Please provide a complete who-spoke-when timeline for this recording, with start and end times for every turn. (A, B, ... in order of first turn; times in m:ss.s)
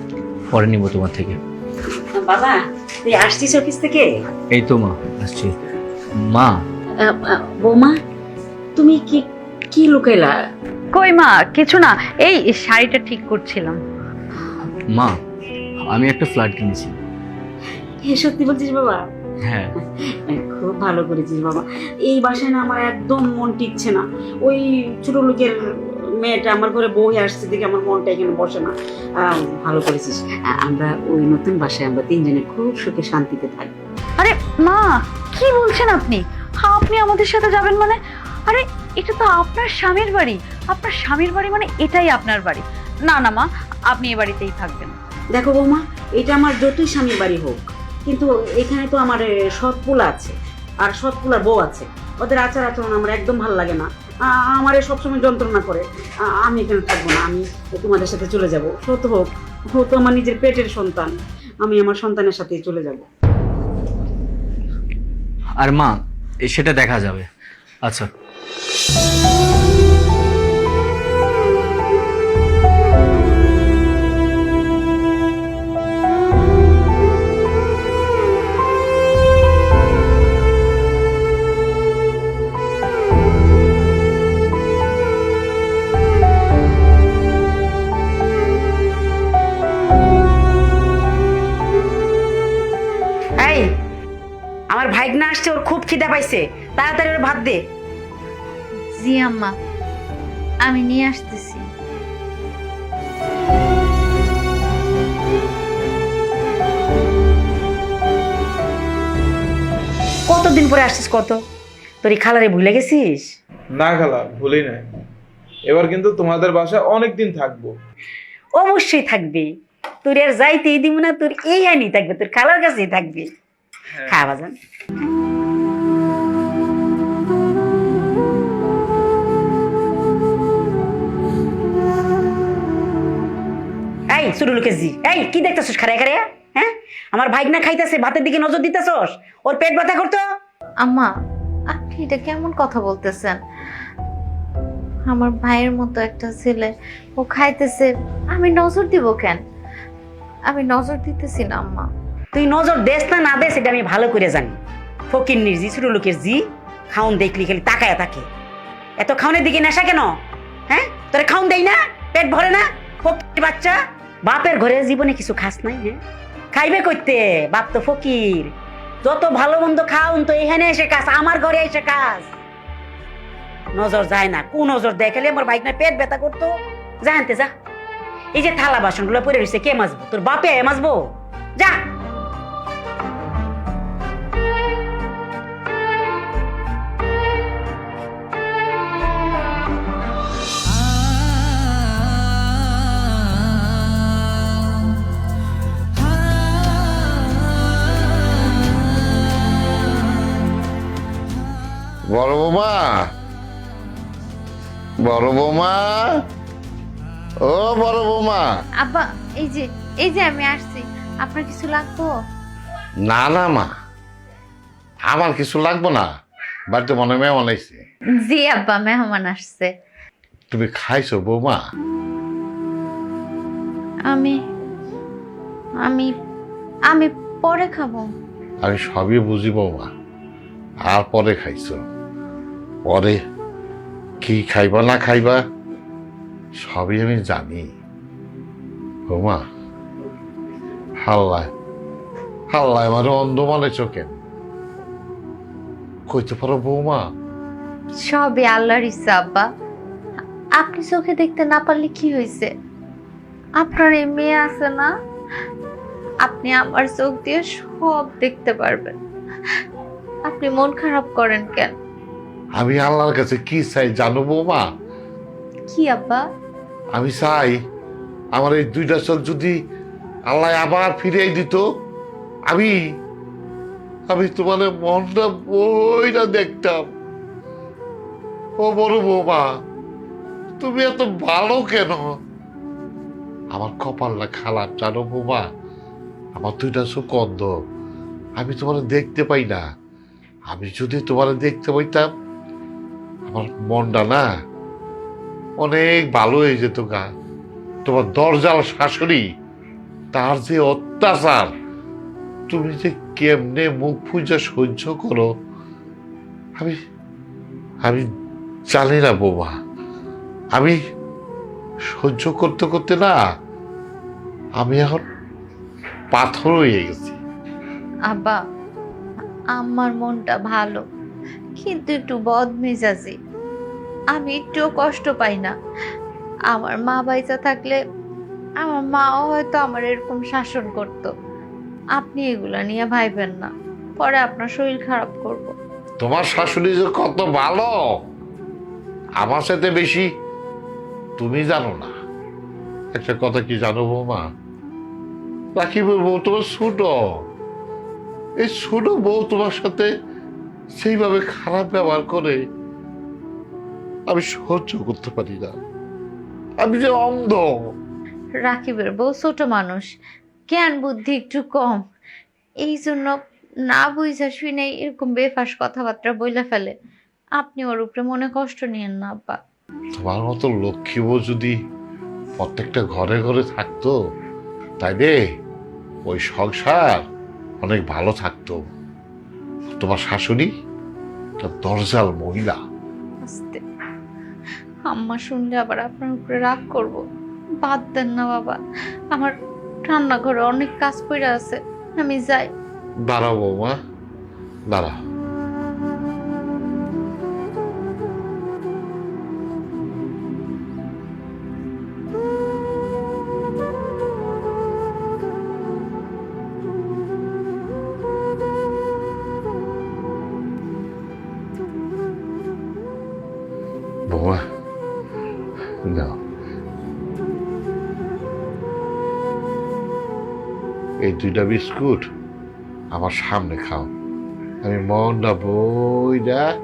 0:00.5-0:01.4 A
0:02.0-0:04.1 B
0:04.5-0:05.6 A
0:06.2-0:06.6 A
0:07.0-0:07.9 B
0:08.8-0:10.3 B
0:10.9-0:13.8 C
0:15.9-0:17.0 A
0:18.0-0:19.0 B
0:19.4-0:19.7 A
0:20.2-0:25.6 B
0:26.2-0:33.8 B
0:34.2-0:45.0 C
0:45.3-1:03.1 B
1:05.6-1:07.3 A
1:07.8-1:08.1 A
1:33.4-1:33.7 B
1:34.7-1:37.6 B
1:39.0-1:39.5 D
1:40.7-1:41.6 D
1:50.3-1:51.4 B
1:52.0-1:53.3 B
1:53.8-1:54.9 E
1:55.7-1:57.7 E
1:58.6-1:59.5 B
2:00.0-2:03.3 B
2:04.0-2:04.5 B
2:14.1-2:20.2 B
2:20.8-2:21.1 D
2:21.7-2:23.4 D
2:25.1-2:29.4 D
2:30.5-2:31.8 D
2:32.3-2:34.6 B
2:35.1-2:38.2 B
2:39.0-2:40.1 B
2:40.7-2:46.0 B
2:46.5-2:48.5 B
2:49.0-2:52.3 B
2:53.8-2:57.5 B
2:58.3-3:01.0 B
3:22.1-3:23.0 F
3:25.0-3:26.0 F
3:27.4-3:28.5 F
3:28.8-3:32.1 D
3:33.1-3:33.7 F
3:35.1-3:36.1 F
3:36.7-3:37.8 F
3:38.3-3:39.7 D
3:40.5-3:41.6 F
3:45.8-3:46.1 D
3:46.9-3:48.1 D
3:48.6-3:49.9 F
3:50.9-3:51.8 F
3:52.9-3:53.2 F
3:54.2-3:55.4 F
3:56.6-3:57.7 F
3:59.1-3:59.4 F
4:01.0-4:01.5 F
4:02.5-4:04.1 F
4:06.1-4:07.0 F
4:08.0-4:09.5 D
4:10.6-4:12.5 D
4:13.6-4:14.9 D
4:16.2-4:19.0 D
4:20.3-4:21.7 D
4:22.6-4:24.6 F
4:25.7-4:26.2 D
4:26.9-4:27.6 F
4:28.4-4:29.5 F
4:30.3-4:31.6 F
4:34.1-4:36.8 F
4:38.6-4:39.4 F
4:40.6-4:42.1 F
4:43.5-4:45.4 F
4:46.4-4:47.5 F
4:48.4-4:49.6 F
4:50.5-4:52.1 F
4:53.3-4:54.2 F
4:55.6-4:57.1 F
4:57.8-4:59.2 F
5:00.1-5:01.5 F
5:02.5-5:05.3 F
5:08.7-5:09.5 F
5:12.0-5:13.2 F
5:14.6-5:15.0 F
5:16.1-5:17.2 F
5:18.1-5:18.4 D
5:19.6-5:20.8 D
5:21.6-5:23.2 D
5:24.1-5:25.5 D
5:26.5-5:27.8 D
5:28.6-5:31.1 D
5:32.0-5:35.5 D
5:36.0-5:37.9 F
5:39.2-5:40.1 F
5:41.2-5:41.9 F
5:42.9-5:44.3 F
5:45.6-5:47.0 F
5:48.4-5:49.9 F
5:50.8-5:52.4 F
5:54.1-5:55.5 F
5:56.6-5:57.6 F
5:58.4-5:59.8 D
6:00.5-6:01.8 D
6:02.6-6:03.1 D
6:03.7-6:06.7 D
6:07.4-6:09.4 D
6:09.9-6:11.5 F
6:12.4-6:13.9 F
6:14.8-6:15.2 F
6:16.1-6:17.0 F
6:17.6-6:18.6 F
6:19.8-6:20.5 F
6:21.4-6:22.6 F
6:23.2-6:23.6 D
6:24.9-6:27.0 D
6:27.6-6:28.6 D
6:29.9-6:32.5 D
6:33.1-6:33.8 F
6:54.1-6:54.4 F
6:55.9-6:56.2 F
7:01.0-7:02.1 F
7:02.9-7:03.9 F
7:04.6-7:06.4 F